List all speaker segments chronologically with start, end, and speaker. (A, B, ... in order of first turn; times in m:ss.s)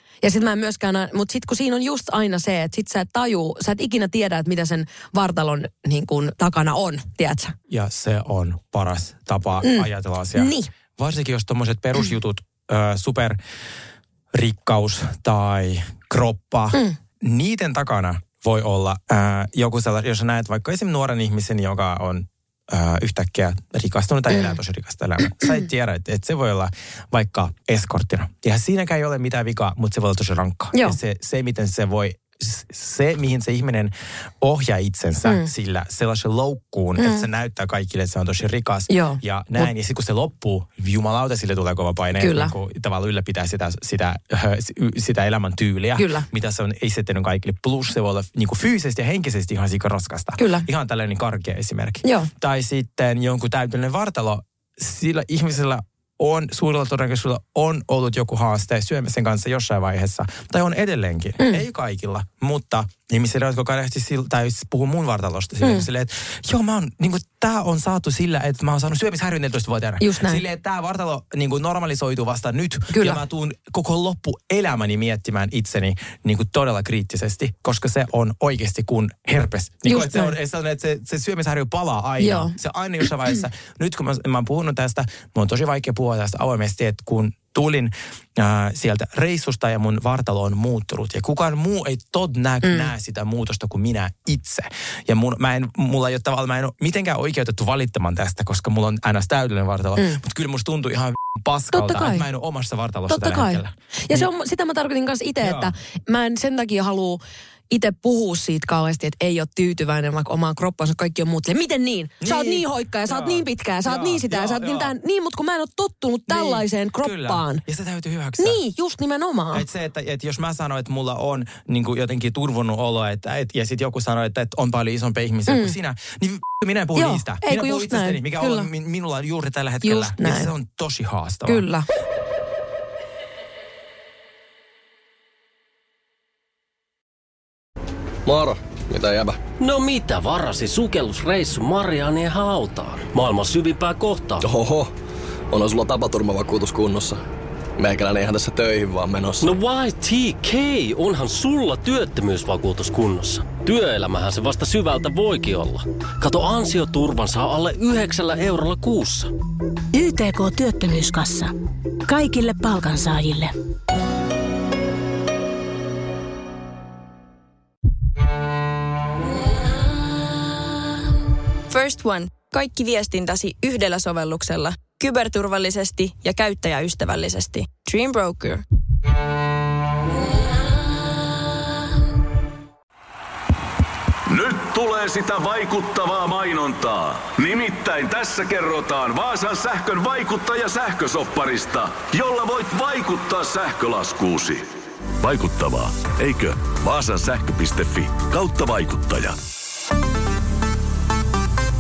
0:00.2-0:07.6 A
0:07.7-0:13.4 B
0:09.6-0:10.7 A
0:14.3-1:44.3 B
0:37.0-0:37.3 A
0:38.9-0:39.7 A
0:42.2-0:42.5 A
0:46.0-0:46.3 A
0:50.4-0:50.7 A
0:52.0-0:52.3 A
1:01.4-1:01.6 A
1:05.6-1:05.9 A
1:10.0-1:10.4 A
1:12.9-1:13.2 A
1:19.8-1:20.4 A
1:22.2-1:22.5 A
1:32.6-1:32.9 A
1:41.7-1:42.3 A
1:43.1-1:57.6 A
1:45.4-1:45.7 B
1:52.2-1:54.9 B
1:56.3-1:58.6 B
1:58.4-1:59.6 A
1:59.5-2:11.7 B
2:05.5-2:05.7 A
2:07.0-2:08.7 A
2:09.8-2:10.5 A
2:11.5-2:11.9 A
2:18.3-2:19.4 C
2:19.6-2:24.4 D
2:24.4-2:24.9 C
2:25.5-2:27.2 C
2:27.8-2:29.5 C
2:29.4-2:39.3 D
2:39.9-2:41.5 E
2:42.1-2:43.6 E
2:51.7-2:58.6 F
3:04.3-3:14.6 G
3:15.2-3:19.4 G